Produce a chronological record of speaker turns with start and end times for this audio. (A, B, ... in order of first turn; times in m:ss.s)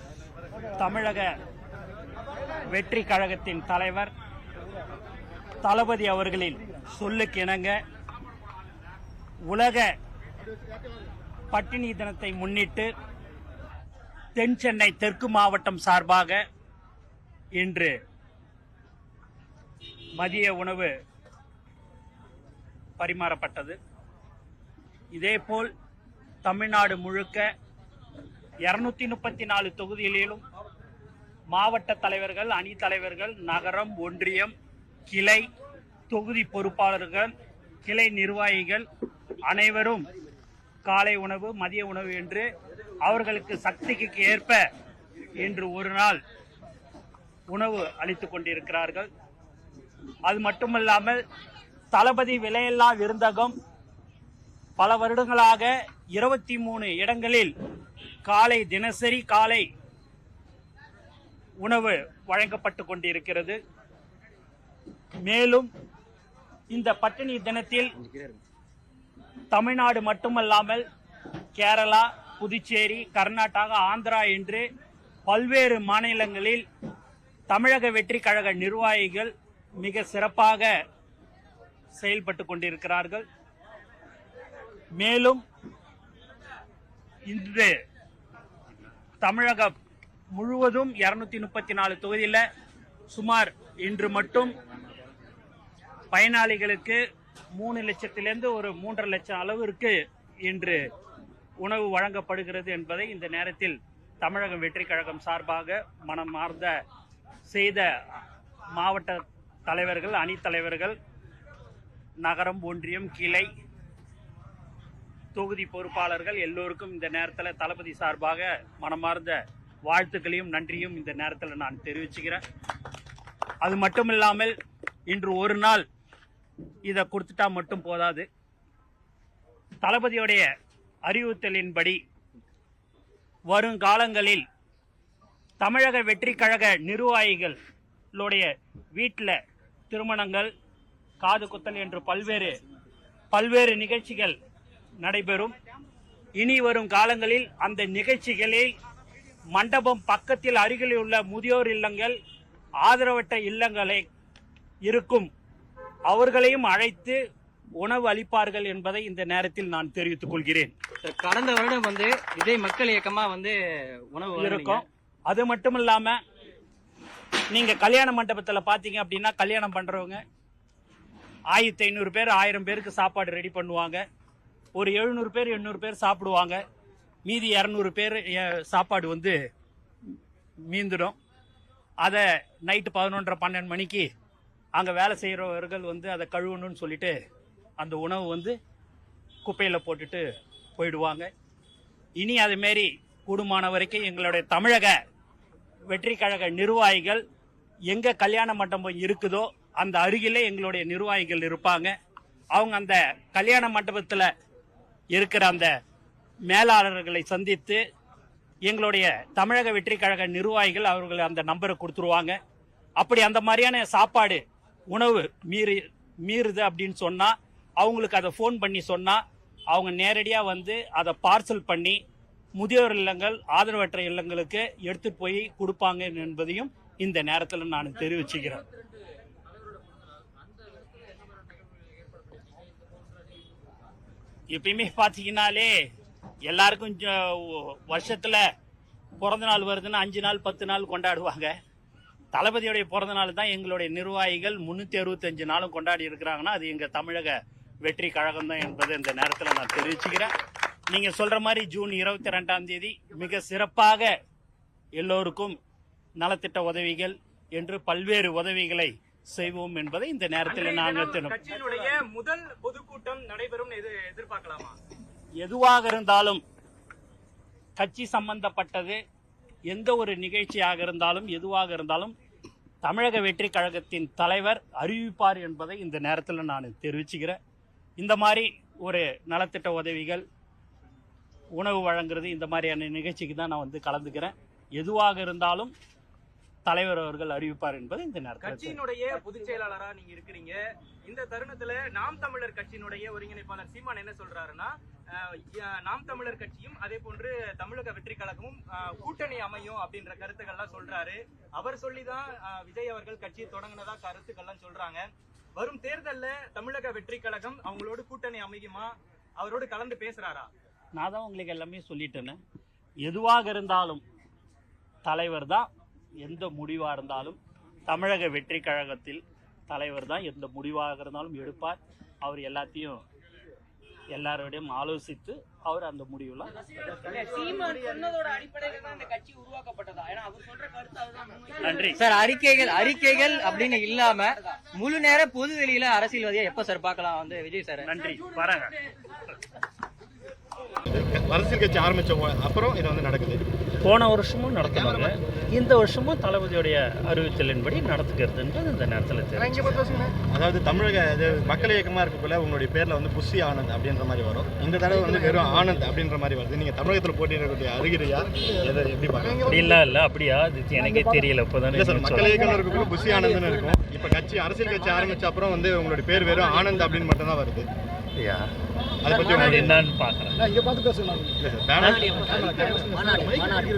0:00.7-0:01.3 A
0:02.7-0:04.1 A
0:05.6-0:07.8 A
0:09.4-0:09.9 A
0:11.5-0:12.9 A
0:14.3-0:16.4 A
0:17.5-0:18.0 A
0:20.2-0:20.9 A
0:23.0-0:23.8 A
0:25.1-0:25.7 A
0:26.4-0:27.5 A
0:28.6-0:30.4 A
0:31.5-0:34.5 A
0:35.1-0:35.4 A
0:36.1-0:37.3 A
0:37.8-0:38.9 A
0:39.4-0:40.1 A
0:40.8-0:42.4 A
0:43.0-0:44.6 A
0:45.4-0:46.2 A
0:47.5-0:49.1 A
0:50.2-0:51.2 A
0:51.9-0:53.6 A
0:54.8-0:57.5 A
0:58.2-0:59.7 A
1:01.6-1:03.6 A
1:05.2-1:05.7 A
1:06.7-1:07.9 A
1:08.0-1:08.4 B
1:09.5-1:10.8 A
1:11.6-1:14.7 A
1:15.3-1:16.6 A
1:17.5-1:20.7 A
1:22.0-1:23.2 A
1:25.0-1:25.4 A
1:27.3-1:27.7 A
1:29.2-1:29.7 A
1:30.3-1:32.4 A
1:33.1-1:34.5 A
1:36.1-1:37.0 A
1:37.5-1:40.8 A
1:41.6-1:46.7 A
1:47.5-1:47.9 A
1:48.7-1:51.0 A
1:52.2-1:53.5 A
1:55.3-2:02.4 A
2:03.6-2:04.5 A
2:05.1-2:05.8 A
2:06.8-2:08.2 A
2:09.8-2:10.5 A
2:11.1-2:12.0 A
2:13.5-2:14.4 A
2:15.6-2:17.6 A
2:18.1-2:19.4 A
2:19.9-2:20.5 A
2:21.2-2:22.6 A
2:23.3-2:24.4 A
2:25.0-2:25.6 A
2:26.4-2:28.7 A
2:29.5-2:32.2 A
2:32.8-2:34.1 A
2:34.8-2:35.3 A
2:36.1-2:37.2 A
2:37.8-2:40.7 A
2:41.0-2:44.8 B
2:44.4-2:46.2 A
2:47.5-2:50.2 A
2:51.5-2:54.0 A
2:54.7-2:56.6 A
2:57.2-2:59.4 A
3:00.6-3:01.2 A
3:02.0-3:04.1 A
3:04.8-3:07.2 A
3:07.8-3:08.6 A
3:09.4-3:10.2 A
3:10.8-3:11.3 A
3:12.2-3:15.0 A
3:15.9-3:17.2 A
3:17.9-3:21.9 A
3:22.5-3:24.3 A
3:25.1-3:25.7 A
3:26.5-3:27.8 A
3:28.6-3:32.4 A
3:33.0-3:42.0 A
3:42.6-3:48.6 A
3:54.5-3:55.7 A
3:56.4-3:58.4 A
3:59.2-4:01.5 A
4:02.3-4:10.3 A
4:10.9-4:14.1 A
4:15.0-4:15.5 A
4:16.2-4:21.4 A
4:20.5-4:24.8 C
4:25.4-4:26.4 A
4:27.8-4:29.0 A
4:29.7-4:32.1 A
4:32.8-4:37.4 A
4:38.0-4:40.2 A
4:41.6-4:45.7 A
4:46.6-4:48.8 A
4:48.4-5:10.5 C
5:10.9-5:12.4 A
5:13.0-5:14.0 A
5:15.0-5:15.7 A
5:16.2-5:23.0 A
5:24.1-5:27.1 A
5:27.1-5:31.5 D
5:31.6-5:32.0 A
5:32.0-5:37.9 B
5:37.8-5:38.7 A
5:40.8-5:43.4 E
5:43.8-5:49.8 A
5:44.6-5:45.1 E
5:50.1-5:59.5 E
5:59.4-6:02.4 A
6:01.7-6:07.7 E
6:08.2-6:08.5 A
6:09.0-6:09.7 E
6:09.2-6:10.4 A
6:11.4-6:13.5 E
6:11.8-6:12.2 A